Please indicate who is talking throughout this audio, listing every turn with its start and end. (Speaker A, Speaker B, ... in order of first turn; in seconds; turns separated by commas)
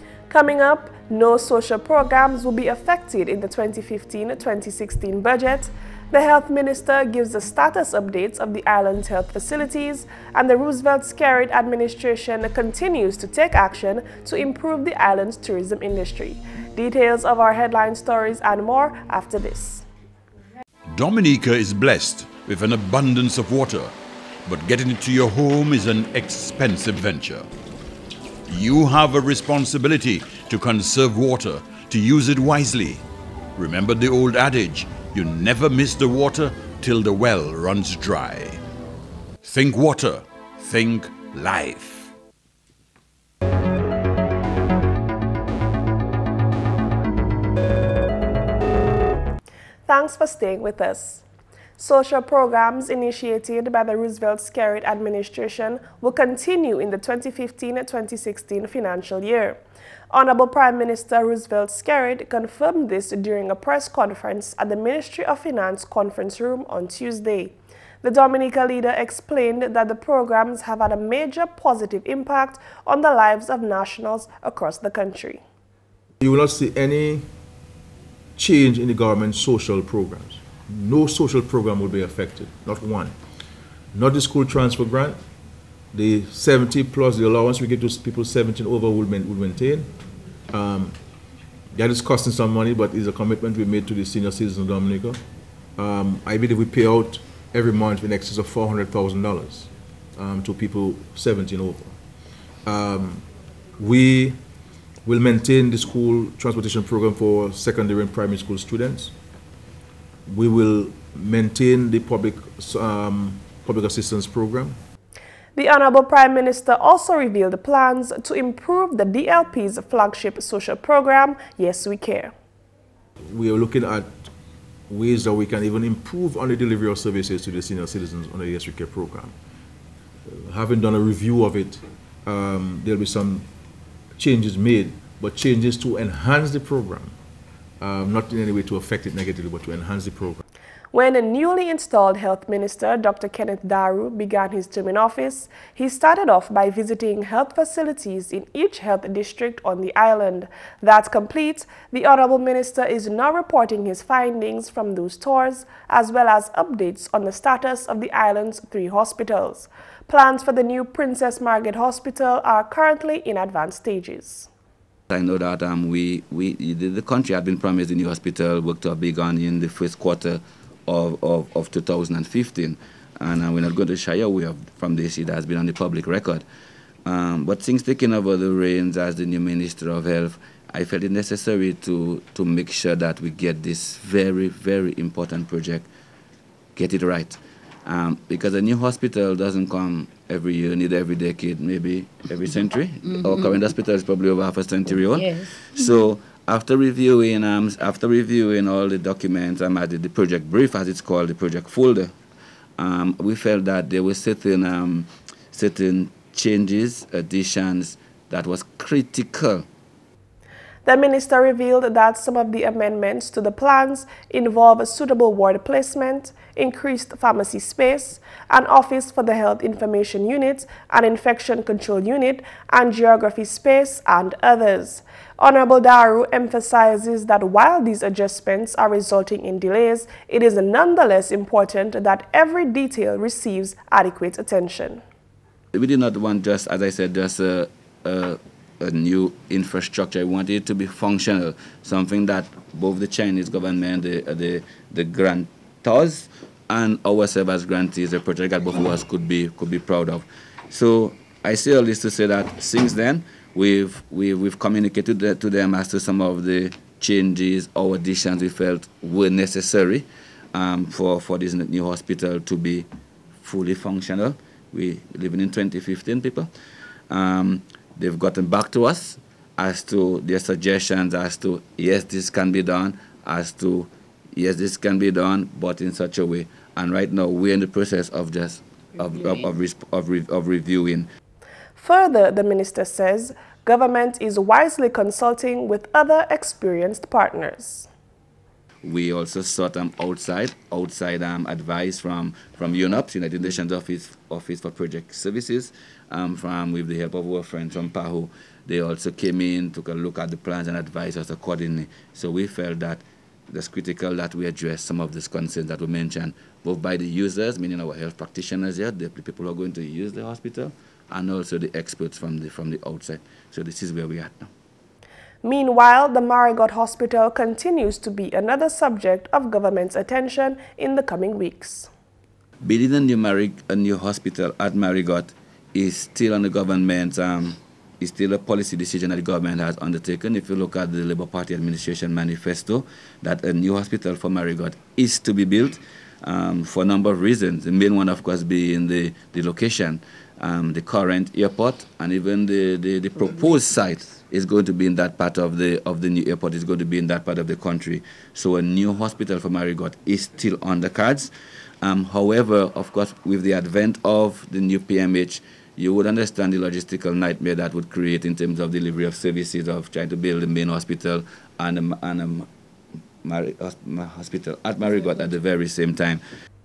Speaker A: 0.3-19.8, Speaker B: 20.9-23.9, Speaker B: 24.4-27.5, Speaker B: 28.5-33.0, Speaker B: 33.6-38.6, Speaker B: 39.4-42.1, Speaker A: 49.9-51.2, Speaker A: 51.8-59.6, Speaker A: 60.1-75.4, Speaker C: 76.2-77.3, Speaker C: 78.4-83.2, Speaker C: 83.9-85.2, Speaker C: 85.9-89.9, Speaker C: 90.5-91.0, Speaker C: 91.7-95.2, Speaker C: 95.8-102.0, Speaker C: 102.7-103.3, Speaker C: 103.8-104.4, Speaker C: 105.0-109.1, Speaker C: 110.3-114.8, Speaker A: 115.6-122.3, Speaker C: 123.2-124.3, Speaker C: 124.9-129.3, Speaker C: 130.3-133.5, Speaker C: 134.2-137.2, Speaker C: 137.8-140.4, Speaker A: 140.9-164.5, Speaker D: 165.1-176.4, Speaker D: 177.1-185.9, Speaker D: 186.8-202.1, Speaker D: 202.8-209.7, Speaker A: 210.8-235.0, Speaker D: 235.7-262.9, Speaker D: 263.4-266.5, Speaker D: 267.1-281.1, Speaker A: 281.8-287.9, Speaker D: 288.8-314.5, Speaker A: 315.4-321.9, Speaker D: 322.6-362.5, Speaker D: 363.2-366.2